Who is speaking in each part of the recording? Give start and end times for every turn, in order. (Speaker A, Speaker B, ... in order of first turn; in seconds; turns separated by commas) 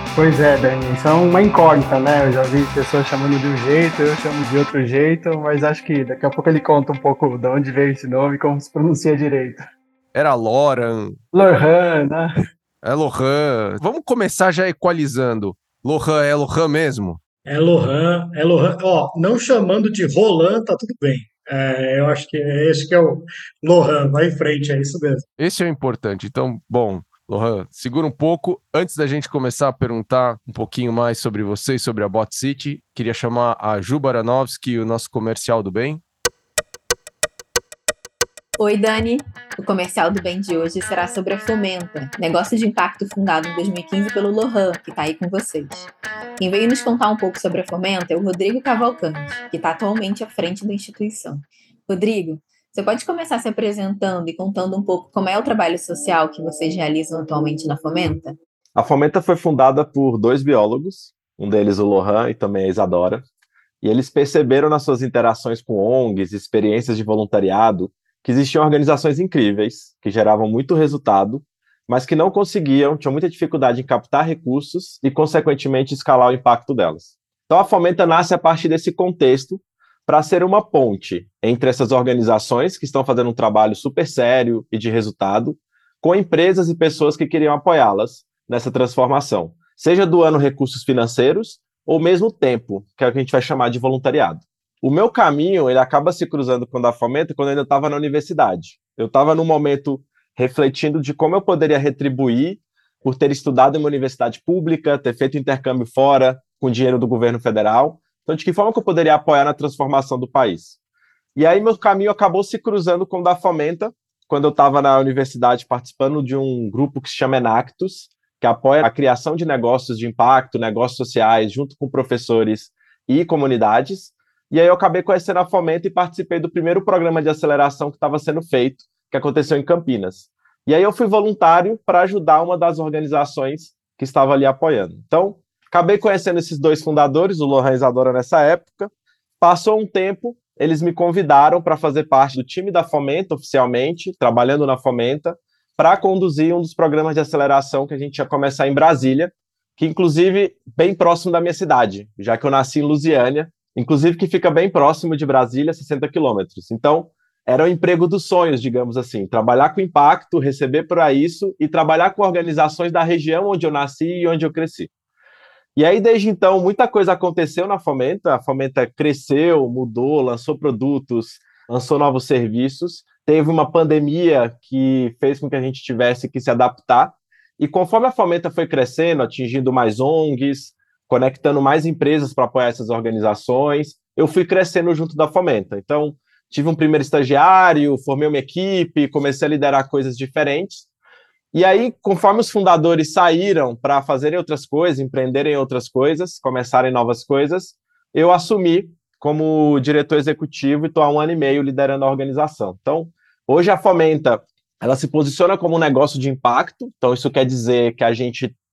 Speaker A: 0.2-9.6, Speaker B: 10.1-11.2, Speaker A: 11.3-12.3, Speaker B: 12.8-17.2, Speaker C: 17.4-25.2, Speaker B: 25.4-36.0, Speaker D: 38.6-58.3, Speaker E: 58.8-63.2, Speaker E: 63.8-110.7, Speaker E: 111.4-164.9, Speaker E: 165.8-190.8, Speaker E: 191.5-208.6